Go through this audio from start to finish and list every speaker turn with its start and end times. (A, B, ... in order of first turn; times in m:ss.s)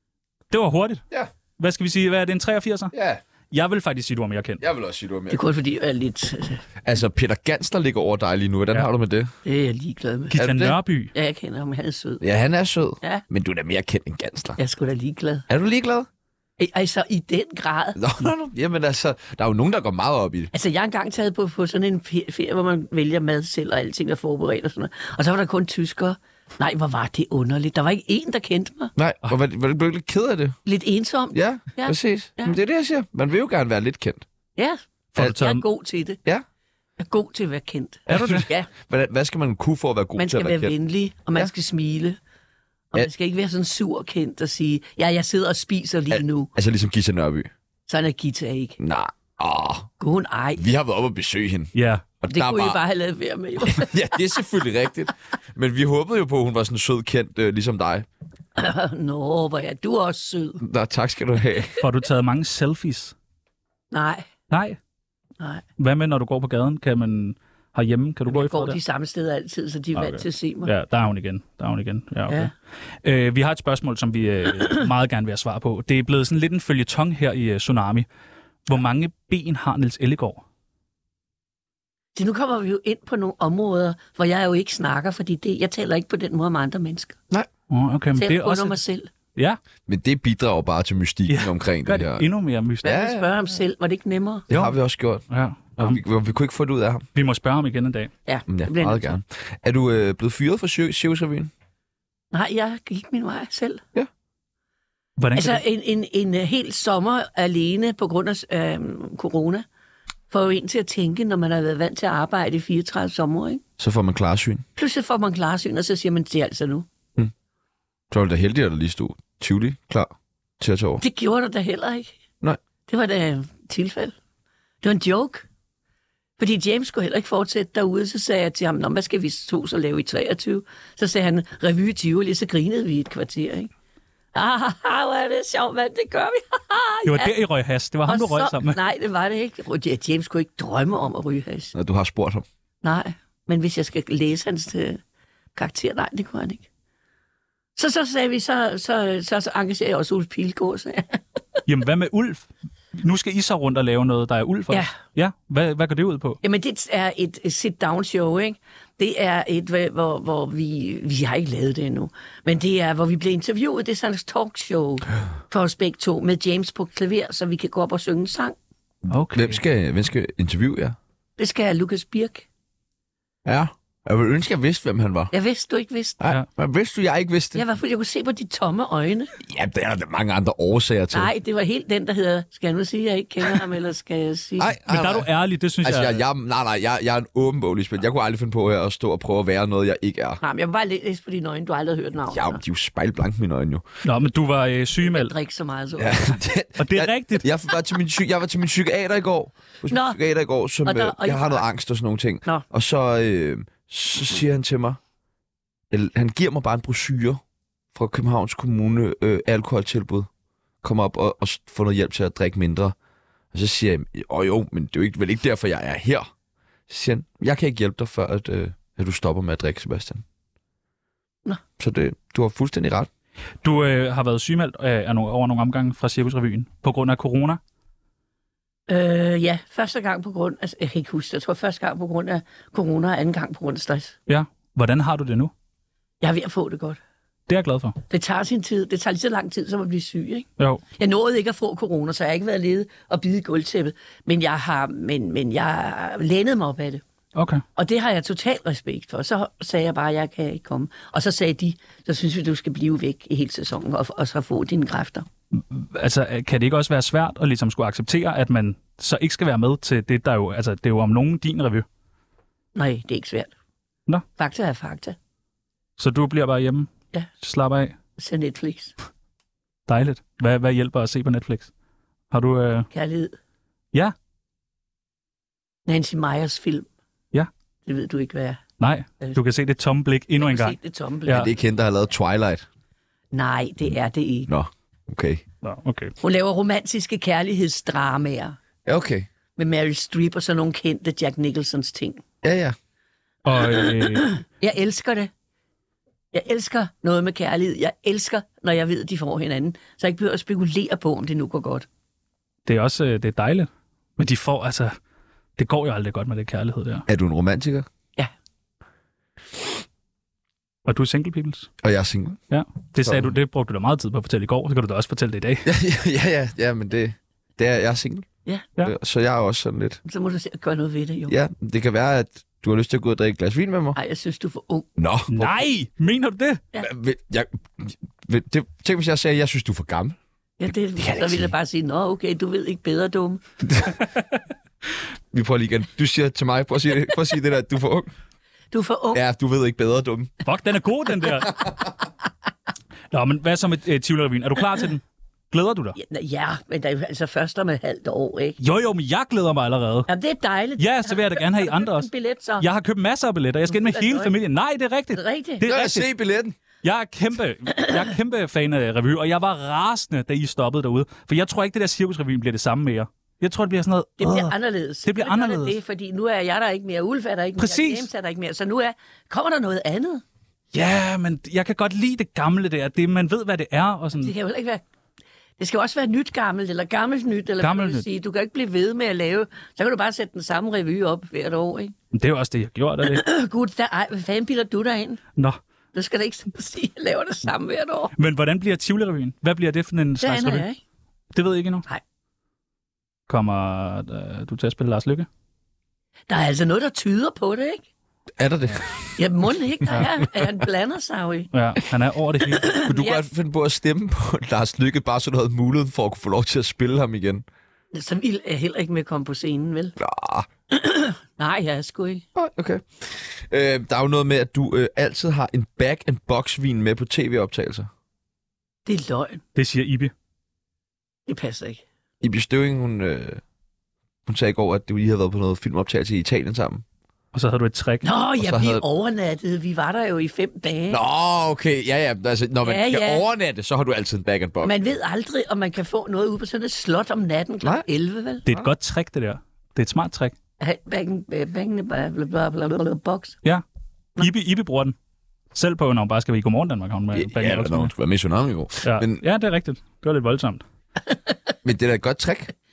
0:00.5-0:01.0 A
0:01.6-0:02.9 A
0:02.9-0:03.2 B
0:03.5-0:04.6 A
0:04.6-0:05.4 B
0:05.3-0:06.6 C
0:06.8-0:09.3 B
0:09.4-0:10.4 C
0:10.3-0:11.1 A
0:10.4-0:10.8 B
0:11.1-0:12.2 C
0:12.2-0:14.6 B
0:14.6-0:15.4 C
0:15.5-0:16.1 B
0:16.6-0:18.0 C
0:18.0-0:20.5 B
0:20.5-0:28.9 C
0:29.0-0:30.6 B
0:30.6-0:32.6 C
0:31.3-0:34.2 B
0:34.6-0:36.2 C
0:35.1-0:35.6 A
0:37.0-0:38.7 C
0:38.1-0:40.7 B
0:38.1-0:38.5 A
0:40.2-0:42.2 C
0:42.9-0:46.5 C
0:46.1-0:47.5 B
0:47.9-0:48.8 C
0:48.8-0:49.9 B
0:50.0-0:50.6 C
0:50.6-0:52.8 B
0:51.7-0:52.0 A
0:52.3-0:53.9 C
0:53.6-0:58.1 B
0:58.6-1:00.6 C
1:00.6-1:01.8 B
1:01.8-1:03.1 A
1:03.9-1:04.2 C
1:04.5-1:04.8 A
1:05.8-1:08.8 A
1:08.3-1:10.7 C
1:09.9-1:12.5 A
1:13.0-1:18.0 A
1:18.7-1:20.4 A
1:22.1-1:27.2 C
1:27.7-1:28.8 A
1:28.2-1:29.1 C
1:29.9-1:32.3 B
1:31.3-1:33.0 A
1:32.8-1:33.2 B
1:32.8-1:34.5 C
1:34.5-1:34.7 A
1:34.5-1:37.0 B
1:35.3-1:36.0 A
1:37.1-1:38.1 A
1:38.2-1:39.2 C
1:38.5-1:41.5 B
1:42.3-1:43.8 C
1:45.2-1:45.6 A
1:45.4-1:49.6 C
1:50.3-1:53.6 C
1:53.8-1:54.6 B
1:54.8-1:56.8 C
1:58.1-2:01.0 B
2:01.0-2:02.1 C
2:02.9-2:04.1 C
2:04.8-2:05.4 C
2:06.4-2:13.7 C
2:14.3-2:17.3 C
2:17.0-2:18.8 A
2:18.0-2:21.7 C
2:21.7-2:22.4 B
2:22.8-2:25.0 C
2:25.6-2:26.7 C
2:27.8-2:31.6 C
2:31.7-2:36.4 A
2:36.4-2:48.6 C
2:49.1-2:49.6 A
2:49.3-2:51.0 B
2:51.4-2:52.4 C
2:53.4-2:55.3 B
2:55.3-2:56.2 C
2:56.2-2:57.6 B
2:57.5-2:59.3 C
2:59.4-3:01.3 B
3:01.1-3:04.7 C
3:04.6-3:05.3 B
3:04.9-3:06.2 A
3:05.8-3:10.4 B
3:10.4-3:12.6 C
3:12.3-3:13.8 B
3:14.0-3:15.3 A
3:15.0-3:16.4 C
3:16.0-3:25.0 B
3:16.8-3:17.4 A
3:19.9-3:20.2 C
3:20.8-3:21.6 C
3:25.9-3:27.4 B
3:27.9-3:30.3 B
3:30.8-3:32.9 B
3:33.5-3:36.3 B
3:36.9-3:40.2 B
3:41.8-3:43.1 B
3:43.6-3:47.6 A
3:48.9-3:54.2 C
3:54.3-3:55.5 A
3:56.2-3:57.0 C
3:57.5-3:58.0 A
3:58.1-4:00.4 C
4:01.0-4:07.0 C
4:07.3-4:07.6 A
4:07.8-4:15.2 C
4:15.5-4:21.8 A
4:22.7-4:23.5 C
4:24.4-4:25.2 C
4:26.0-4:26.9 A
4:27.4-4:28.0 A
4:28.2-4:28.9 C
4:29.9-4:31.7 A
4:32.3-4:32.9 A
4:32.9-4:33.3 C
4:35.8-4:36.8 C
4:37.8-4:38.6 C
4:38.8-4:41.5 A
4:40.4-4:41.4 C
4:41.3-4:42.6 B
4:43.3-4:44.5 C
4:44.5-4:45.4 B
4:45.6-4:46.1 A
4:46.2-4:48.6 C
4:48.8-4:49.3 B
4:49.6-4:52.2 C
4:52.4-4:52.8 B
4:53.4-4:54.3 A
4:53.5-4:55.3 C
4:56.3-5:01.8 C
5:02.6-5:04.9 A
5:05.6-5:07.0 A
5:07.1-5:07.8 B
5:10.8-5:11.7 A
5:11.8-5:12.4 B
5:12.5-5:15.7 A
5:13.0-5:13.3 B
5:15.6-5:18.3 B
5:18.8-5:20.0 B
5:20.0-5:21.3 C
5:21.3-5:24.0 B
5:23.9-5:24.9 C
5:25.0-5:25.5 B
5:25.3-5:26.6 A
5:26.8-5:30.2 B
5:30.6-5:33.4 C
5:31.0-5:31.5 B
5:33.6-5:34.0 B
5:35.3-5:38.1 B
5:38.7-5:39.2 C
5:39.1-5:40.3 B
5:40.4-5:41.6 A
5:43.1-5:46.0 A
5:46.0-5:48.6 C
5:48.6-5:50.1 A
5:50.1-5:52.7 C
5:50.8-5:56.1 A
5:53.6-5:54.3 C
5:55.1-5:55.6 C
5:55.6-5:56.5 B
5:56.8-6:05.8 A
6:04.2-6:10.2 C
6:07.6-6:08.1 A
6:10.7-6:14.3 A
6:14.2-6:14.8 C
6:15.6-6:21.9 C
6:17.6-6:18.0 A
6:22.1-6:23.2 A
6:23.0-6:25.2 C
6:25.9-6:28.1 C
6:28.2-6:30.6 A
6:30.2-6:30.8 C
6:31.3-6:31.8 A
6:33.3-6:35.3 A
6:36.3-6:37.8 C
6:38.4-6:40.2 B
6:39.2-6:41.5 C
6:41.5-6:42.7 A
6:42.5-6:43.2 C
6:42.8-6:47.4 B
6:47.9-6:50.0 C
6:50.0-6:50.5 B
6:50.7-6:52.2 C
6:52.3-6:57.9 B
6:58.8-6:59.4 C
6:59.6-7:00.1 A
7:01.3-7:01.8 C
7:02.2-7:03.4 B
7:04.2-7:06.8 B
7:07.3-7:08.0 A
7:08.0-7:11.0 C
7:08.4-7:08.8 B
7:10.9-7:14.7 B
7:12.6-7:13.2 C
7:14.6-7:18.4 C
7:18.4-7:20.3 A
7:20.6-7:23.4 C
7:24.2-7:24.9 A
7:25.5-7:27.9 A
7:27.1-7:29.2 B
7:28.8-7:30.6 A
7:31.1-7:31.3 C
7:31.6-7:32.5 B